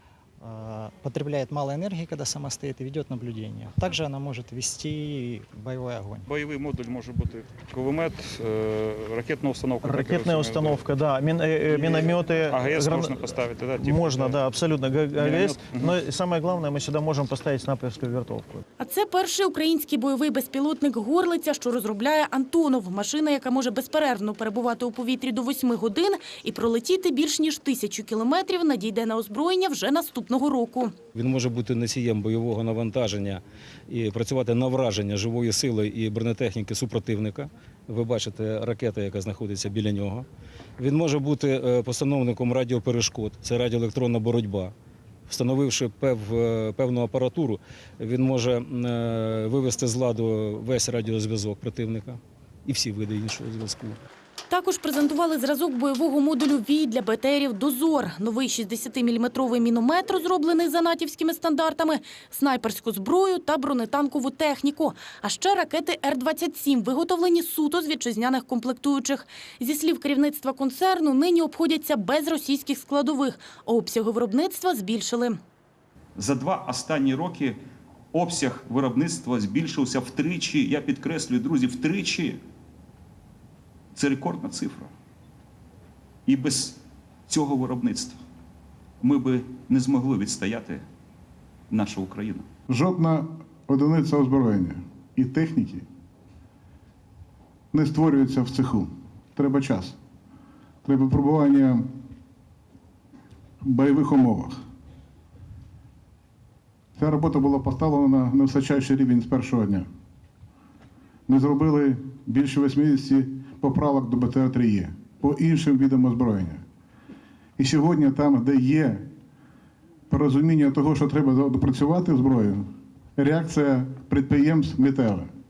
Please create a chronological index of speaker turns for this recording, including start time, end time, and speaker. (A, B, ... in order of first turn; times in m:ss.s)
0:00.4-0:06.2 A
0:06.3-0:10.9 B
0:09.8-0:18.6 C
0:11.7-0:14.4 B
0:15.1-0:16.0 B
0:18.8-0:30.9 D
0:31.1-0:40.2 E
0:40.8-0:44.7 E
0:45.3-0:54.0 E
0:54.5-1:15.4 D
1:16.2-1:17.6 F
1:18.1-1:22.4 F
1:23.9-1:24.9 F
1:26.2-1:28.2 F
1:29.0-1:30.8 F
1:31.7-1:32.5 F
1:32.7-1:35.8 G
1:37.7-1:40.0 G
1:40.8-1:41.8 G
1:43.6-1:44.6 G
1:47.0-1:49.9 G
1:51.3-1:56.6 G
1:57.6-1:59.0 G
2:00.1-2:02.6 G
2:03.2-2:05.3 G